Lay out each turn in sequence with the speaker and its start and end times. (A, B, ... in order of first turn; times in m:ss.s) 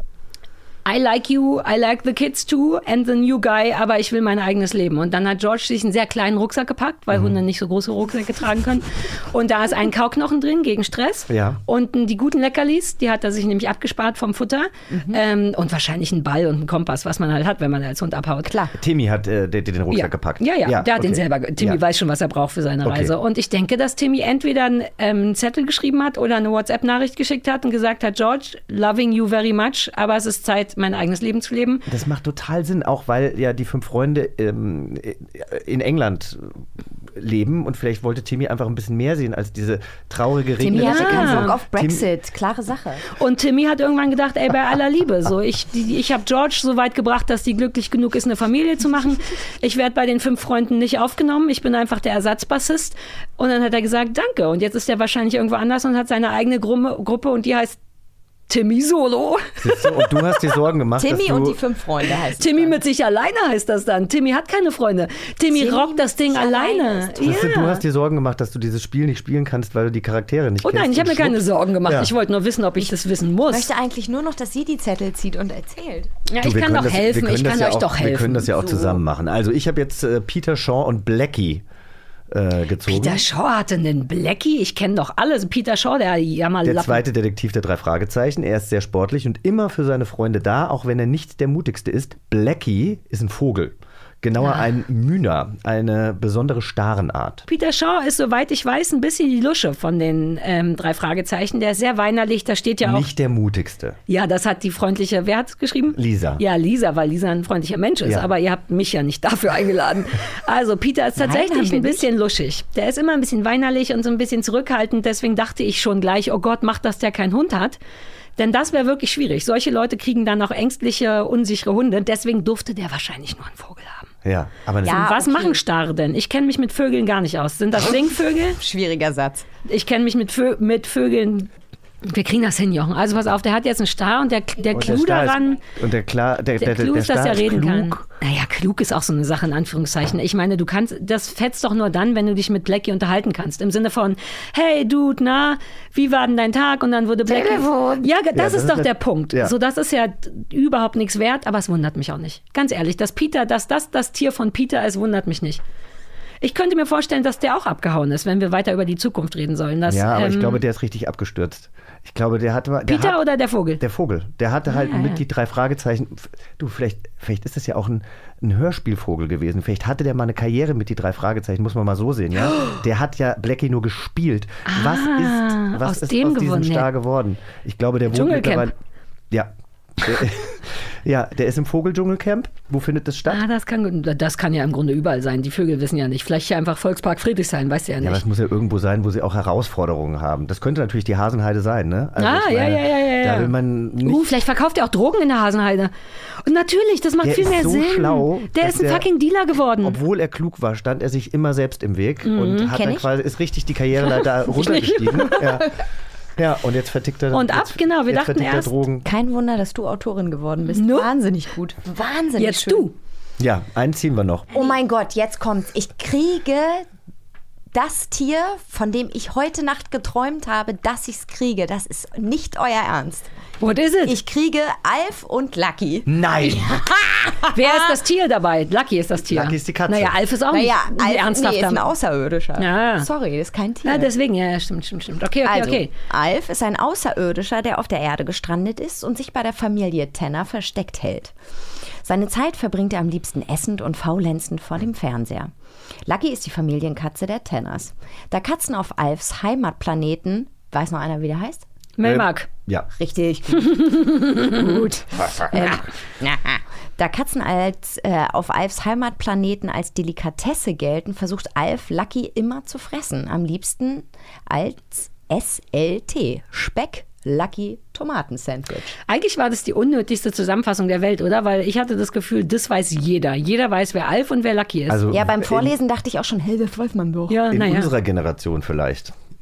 0:00.8-0:18.5 A
0:07.1-0:07.4 B
0:11.3-0:11.6 B
0:14.9-0:15.2 C
0:18.4-0:18.7 C
0:18.8-0:21.8 B
0:19.9-0:31.8 A
0:22.8-0:23.1 B
0:31.9-0:42.1 B
0:40.6-0:43.0 C
0:40.7-0:41.6 A
0:43.1-0:57.8 A
0:58.5-1:00.1 A
0:59.6-1:01.6 B
1:01.0-1:02.8 C
1:02.4-1:07.8 A
1:05.5-1:07.8 C
1:07.2-1:12.1 B
1:10.6-1:13.7 A
1:13.5-1:16.1 C
1:16.3-1:18.5 A
1:16.4-1:21.6 B
1:18.6-1:19.0 C
1:22.3-1:23.2 B
1:22.9-1:27.0 A
1:26.6-1:37.4 B
1:37.5-1:43.1 A
1:42.8-1:44.0 B
1:44.1-1:57.8 A
1:45.9-1:46.4 B
1:51.2-1:52.1 C
1:58.4-2:04.1 A
2:04.2-2:05.1 B
2:04.8-2:05.6 C
2:04.9-2:08.6 A
2:08.6-2:09.5 C
2:09.7-2:11.5 A
2:12.0-2:15.6 A
2:14.7-2:18.0 B
2:16.6-2:35.6 A
2:27.3-2:28.1 C
2:28.3-2:29.5 B
2:36.4-2:40.6 A
2:39.9-2:43.2 B
2:42.9-2:43.8 A
2:43.8-2:58.8 B
2:44.7-2:45.2 C
2:54.7-2:56.9 A
2:58.1-2:58.7 A
2:59.3-3:03.4 B
3:03.3-3:08.2 A
3:08.0-3:14.4 B
3:12.2-3:13.5 A
3:14.0-3:15.9 A
3:16.4-3:20.0 A
3:17.2-3:19.1 B
3:19.8-3:25.8 B
3:22.2-3:22.7 A
3:22.7-3:23.1 C
3:24.0-3:25.5 A
3:26.4-3:29.1 B
3:27.3-3:28.8 A
3:29.0-3:32.9 C
3:30.8-3:31.1 A
3:32.4-3:32.9 A
3:33.4-3:34.5 B
3:34.5-3:36.9 C
3:37.7-3:43.3 C
3:43.6-3:44.1 A
3:44.0-3:47.9 C
3:46.1-3:46.8 B
3:47.6-3:51.9 A
3:49.3-3:50.2 B
3:50.5-3:54.1 C
3:52.6-3:53.1 A
3:53.9-3:55.9 A
3:55.4-4:01.4 C
4:02.0-4:05.5 C
4:06.0-4:11.7 C
4:12.0-4:12.5 A
4:12.0-4:12.9 B
4:12.9-4:28.9 C
4:13.9-4:14.5 A
4:29.1-4:35.0 A
4:34.9-4:35.7 B
4:35.1-4:37.4 C
4:37.3-4:37.9 A
4:37.5-4:39.1 B